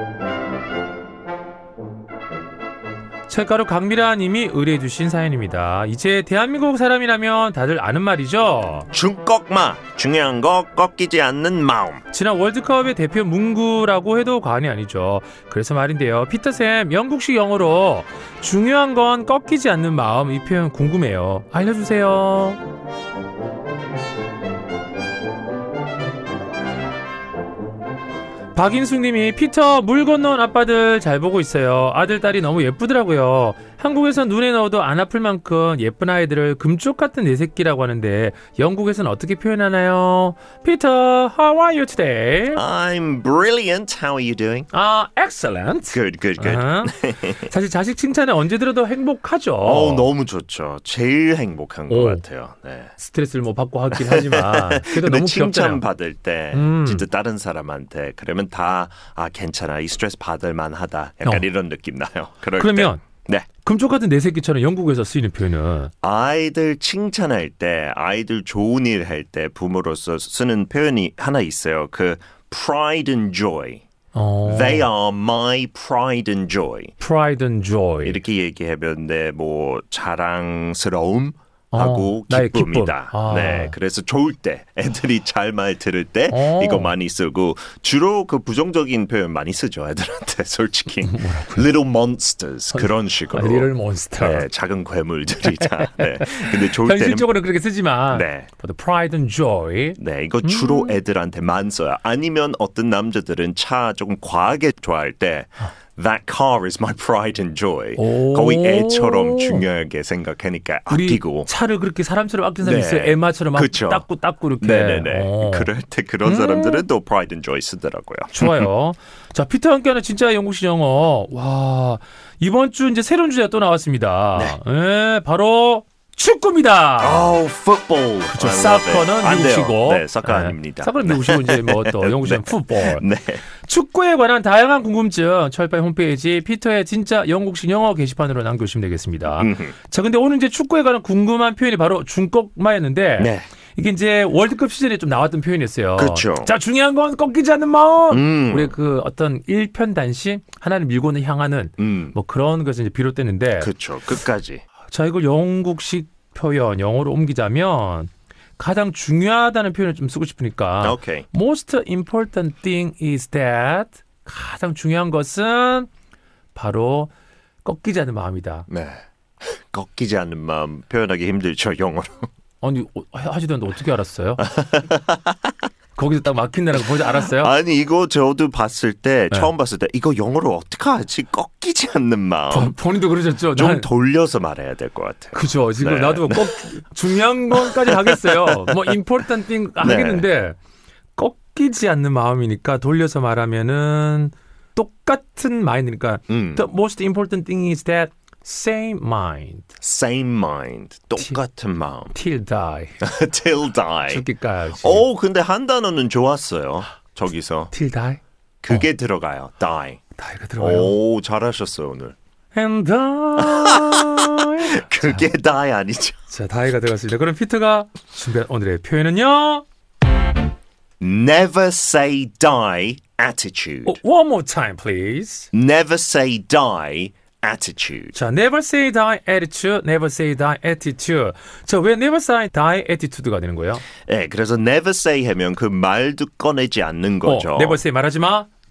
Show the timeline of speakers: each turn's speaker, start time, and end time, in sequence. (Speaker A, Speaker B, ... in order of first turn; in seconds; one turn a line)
Speaker A: 3.3-8.9
Speaker B: 8.9-12.0
Speaker A: 12.1-22.6
Speaker A: 28.5-42.6
Speaker B: 42.5-44.7
Speaker A: 44.7-50.1
Speaker B: 45.9-47.5
Speaker B: 49.6-52.9
Speaker A: 51.9-52.2
Speaker A: 53.0-55.8
Speaker B: 53.9-63.5
Speaker A: 56.5-57.0
Speaker A: 62.6-65.9
Speaker B: 66.0-73.8
Speaker A: 74.1-74.9
Speaker B: 74.4-76.9
Speaker A: 77.0-78.2
Speaker B: 78.0-97.3
Speaker A: 81.7-83.8
Speaker A: 86.3-86.9
Speaker A: 91.0-91.7
Speaker A: 92.7-94.5
Speaker A: 95.4-101.0
Speaker B: 98.1-98.5
Speaker B: 100.0-111.5
Speaker A: 108.0-109.6
Speaker A: 110.9-115.7
Speaker B: 112.6-114.0
Speaker B: 114.6-118.6
Speaker A: 116.2-116.8
Speaker A: 118.3-127.4
Speaker B: 127.0-133.4
Speaker A: 128.3-133.0
Speaker A: 133.6-153.7
Speaker B: 139.4-139.7
Speaker B: 143.2-143.5
Speaker B: 146.0-146.5
Speaker B: 148.1-148.7
Speaker B: 151.8-152.1
Speaker B: 153.6-154.6
Speaker A: 154.9-165.9
Speaker B: 160.8-161.3
Speaker A: 166.5-167.1
Speaker A: 167.6-168.7
Speaker B: 168.7-172.3
Speaker A: 172.6-174.4
Speaker B: 174.4-175.3
Speaker A: 175.9-177.5
Speaker B: 176.8-182.7
Speaker A: 182.5-183.9
Speaker B: 183.5-186.7
Speaker A: 185.3-190.6
Speaker B: 187.5-188.9
Speaker B: 189.8-190.2
Speaker A: 191.2-199.7
Speaker B: 196.3-196.6
Speaker B: 199.8-202.1
Speaker A: 202.1-202.9
Speaker B: 203.0-204.2
Speaker A: 204.1-205.1
Speaker B: 204.8-207.7
Speaker A: 207.7-208.2
Speaker B: 208.6-210.0
Speaker A: 210.2-210.9
Speaker B: 210.6-212.2
Speaker A: 212.5-215.3
Speaker B: 213.3-216.2
Speaker A: 216.3-219.6
Speaker B: 221.0-224.0
Speaker A: 223.8-225.5
Speaker B: 225.5-228.1
Speaker A: 228.1-233.8
Speaker B: 234.1-237.8
Speaker A: 237.2-238.5